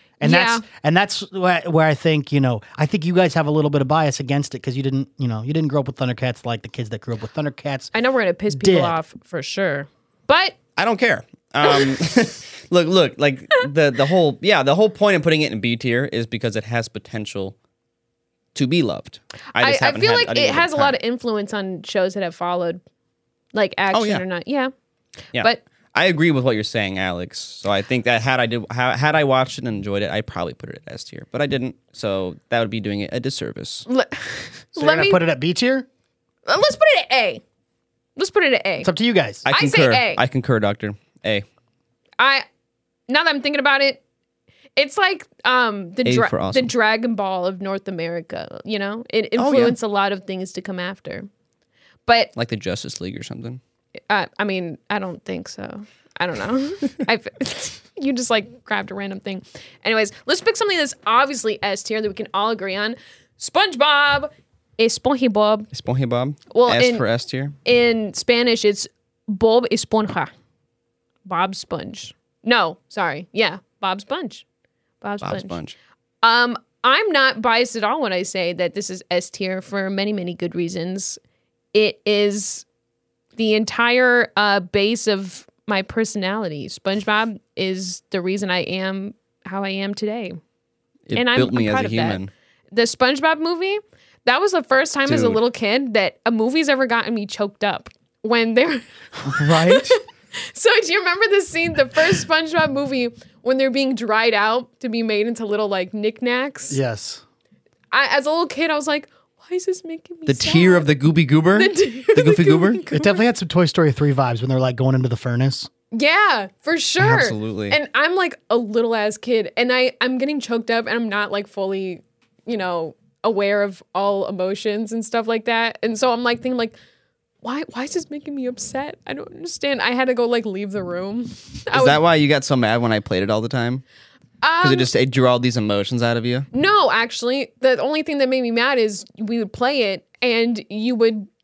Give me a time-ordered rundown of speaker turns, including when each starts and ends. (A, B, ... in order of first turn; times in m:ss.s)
0:00.2-0:07.9 A
0:00.2-0:00.6 B
0:07.9-0:10.6 B
0:08.5-0:09.0 A
0:10.8-0:17.6 C
0:18.6-0:21.0 C
0:19.6-0:22.8 B
0:23.5-0:24.7 B
0:23.9-0:24.2 C
0:25.4-0:25.6 B
0:25.4-0:33.9 C
0:33.9-0:35.2 B
0:34.8-0:35.9 A
0:36.5-0:37.4 B
0:38.2-0:38.9 B
0:38.8-0:39.4 A
0:39.4-0:41.4 C
0:39.5-0:40.2 B
0:42.2-0:42.5 B
0:43.1-0:44.0 B
0:44.8-0:51.3 B
0:46.0-0:46.7 C
0:49.4-0:49.8 C
0:52.1-0:52.3 B
0:52.4-0:53.6 C
0:54.1-1:05.7 B
1:05.7-1:07.6 C
1:06.5-1:07.0 B
1:07.6-1:10.3 B
1:11.3-1:14.4 B
1:15.0-1:15.6 B
1:15.2-1:15.8 C
1:16.2-1:21.2 B
1:21.7-1:22.6 B
1:23.4-1:30.4 B
1:31.1-1:32.3 C
1:31.2-1:32.2 B
1:32.7-1:46.8 B
1:35.1-1:35.4 C
1:39.2-1:40.0 C
1:46.7-1:47.2 A
1:47.9-1:50.9 B
1:50.3-1:52.8 C
1:51.6-1:53.2 B
1:52.9-1:55.7 A
1:55.9-2:06.8 B
1:57.0-1:57.8 C
2:07.4-2:12.0 B
2:11.7-2:13.8 C
2:14.4-2:14.9 B
2:14.6-2:16.5 C
2:16.5-2:21.3 B